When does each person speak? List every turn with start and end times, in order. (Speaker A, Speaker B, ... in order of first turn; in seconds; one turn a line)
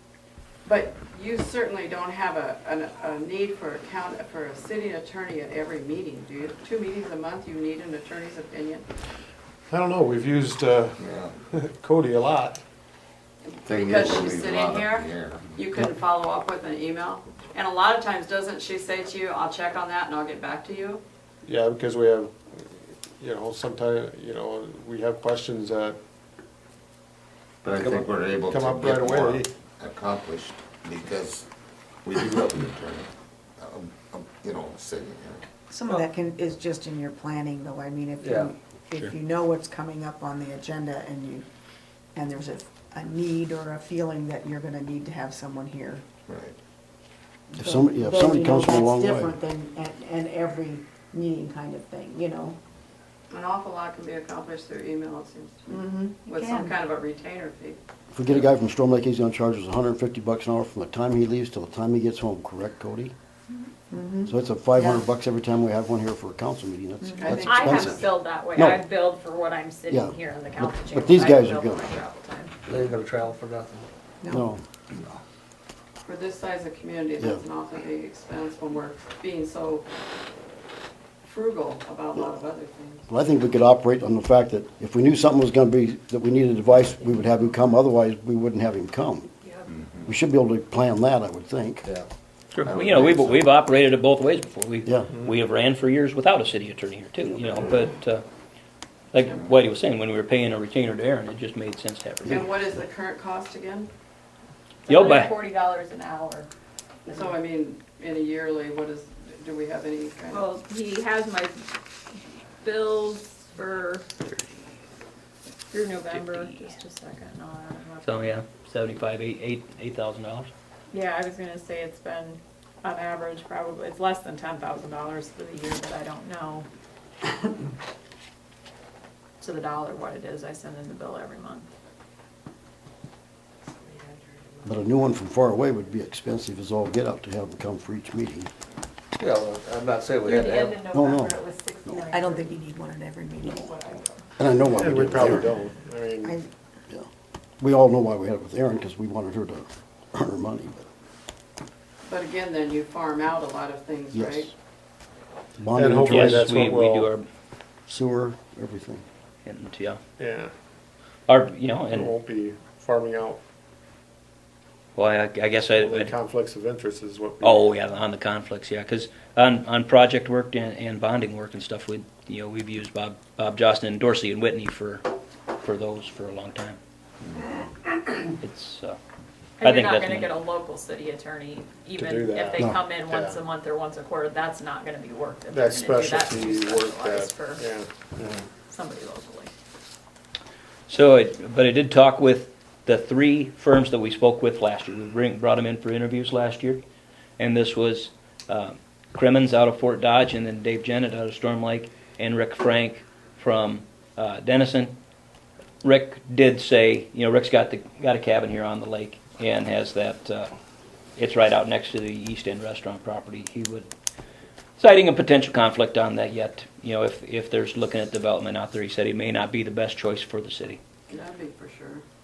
Speaker A: 0.7-8.9
Speaker B: 9.7-12.6
Speaker C: 11.0-11.4
Speaker A: 13.4-21.0
Speaker C: 13.6-15.5
Speaker B: 21.4-22.6
Speaker B: 23.2-26.0
Speaker C: 27.6-31.5
Speaker D: 27.7-28.0
Speaker B: 28.5-29.5
Speaker C: 32.0-35.5
Speaker E: 35.7-41.5
Speaker D: 38.2-38.5
Speaker E: 42.1-46.0
Speaker C: 46.3-46.6
Speaker E: 47.5-52.6
Speaker F: 47.6-49.4
Speaker A: 53.3-57.8
Speaker E: 55.7-56.8
Speaker F: 58.1-63.1
Speaker E: 63.9-65.0
Speaker F: 64.2-68.8
Speaker E: 67.0-67.4
Speaker A: 67.2-68.0
Speaker G: 67.4-72.5
Speaker F: 69.9-71.9
Speaker D: 72.7-73.9
Speaker F: 74.3-74.6
Speaker A: 76.0-79.9
Speaker A: 81.2-83.0
Speaker F: 83.1-89.3
Speaker C: 89.7-90.1
Speaker F: 90.1-91.8
Speaker H: 92.5-98.2
Speaker C: 92.6-92.9
Speaker H: 99.1-102.5
Speaker A: 102.3-103.9
Speaker G: 104.9-106.5
Speaker H: 104.9-105.3
Speaker G: 107.1-107.3
Speaker A: 107.1-110.5
Speaker G: 110.3-111.7
Speaker G: 112.6-114.0
Speaker G: 115.7-118.4
Speaker H: 116.1-116.6
Speaker H: 118.0-120.5
Speaker G: 120.9-126.7
Speaker G: 129.4-131.7
Speaker F: 134.7-138.5
Speaker D: 139.2-140.8
Speaker G: 140.2-142.6
Speaker F: 140.9-141.4
Speaker E: 141.9-144.0
Speaker G: 143.4-144.2
Speaker F: 144.4-145.5
Speaker B: 144.7-146.3
Speaker F: 147.6-150.9
Speaker A: 152.1-154.5
Speaker F: 154.1-154.5
Speaker F: 155.6-156.5
Speaker B: 155.8-157.1
Speaker H: 156.1-157.3
Speaker F: 157.9-159.0
Speaker H: 159.4-160.0
Speaker B: 160.2-160.5
Speaker H: 161.3-162.1
Speaker B: 161.9-163.4
Speaker H: 164.9-166.1
Speaker B: 165.7-167.8
Speaker H: 167.4-175.1
Speaker H: 175.6-176.8
Speaker H: 178.4-179.0
Speaker G: 179.6-187.7
Speaker H: 179.6-180.4
Speaker B: 181.9-183.4
Speaker B: 185.5-188.4
Speaker G: 188.6-189.5
Speaker H: 190.9-196.8
Speaker H: 197.4-204.9
Speaker H: 205.8-210.5
Speaker H: 211.2-213.9
Speaker H: 214.8-220.8
Speaker A: 221.1-222.0